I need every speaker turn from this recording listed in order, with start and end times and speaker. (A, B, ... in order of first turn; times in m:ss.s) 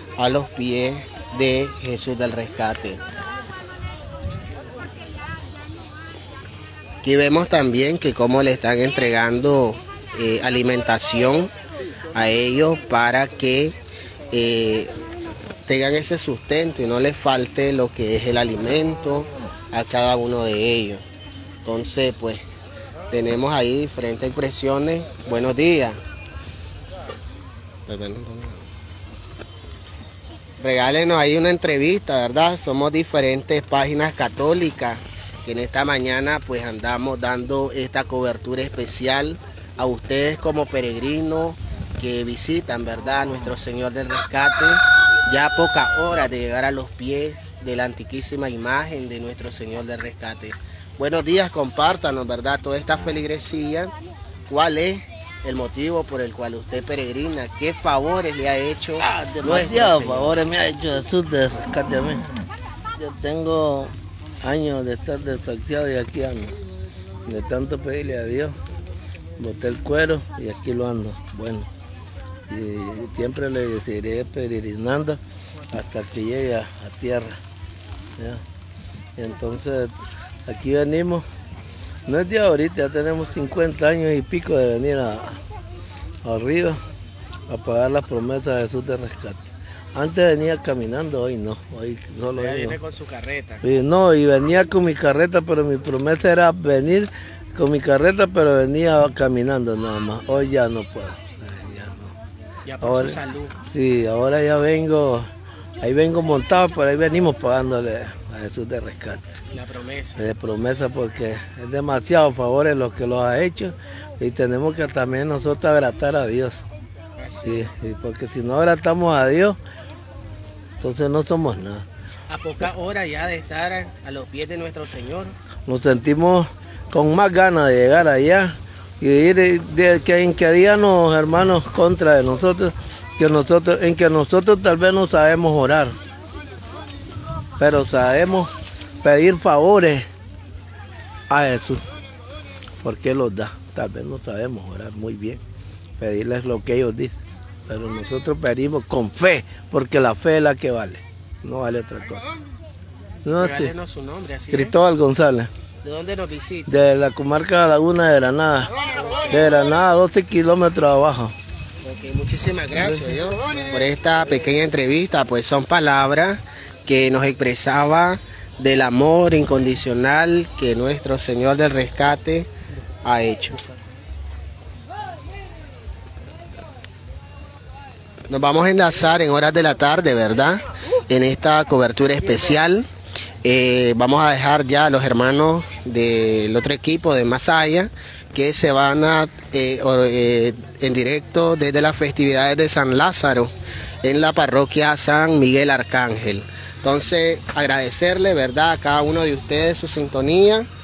0:00.2-0:03.0 A
0:07.0-0:11.5 A
0:12.1-0:13.8 A
0:14.3-0:14.9 A
0:15.6-0:21.0 A
0:21.6-0:22.4 A
0:23.1-0:26.0 A
0:27.9-0:28.6 A
0:30.6-0:53.9 A
0:54.5-1:00.3 A
0:59.0-1:02.3 B
1:03.0-1:06.6 B
1:07.2-1:08.6 B
1:09.4-1:11.7 B
1:12.5-1:15.2 B
1:15.7-1:17.4 B
1:18.2-1:18.4 B
1:19.2-1:19.9 B
1:20.4-1:21.2 B
1:22.0-1:25.4 B
1:26.2-1:26.8 B
1:27.5-1:32.8 B
1:32.3-1:33.6 A
1:33.6-1:42.2 B
1:42.6-1:43.6 A
1:42.8-1:43.2 B
1:43.7-1:45.3 B
1:45.8-1:49.2 B
1:49.5-1:50.2 A
1:50.2-1:56.6 B
1:57.2-1:57.7 A
1:57.4-1:59.6 B
2:00.8-2:01.8 B
2:02.3-2:05.3 A
2:05.6-2:16.0 B
2:17.6-2:18.5 B
2:19.0-2:20.1 B
2:21.3-2:21.8 B
2:22.8-2:25.4 B
2:26.0-2:32.2 B
2:33.2-2:33.7 B
2:33.4-2:34.7 A
2:34.5-2:35.5 B
2:35.8-2:36.8 A
2:36.7-2:38.7 B
2:39.3-2:41.3 B
2:41.8-2:52.5 A
2:53.0-2:53.6 A
2:58.3-3:02.8 A
3:03.4-3:13.5 A
3:14.0-3:20.7 A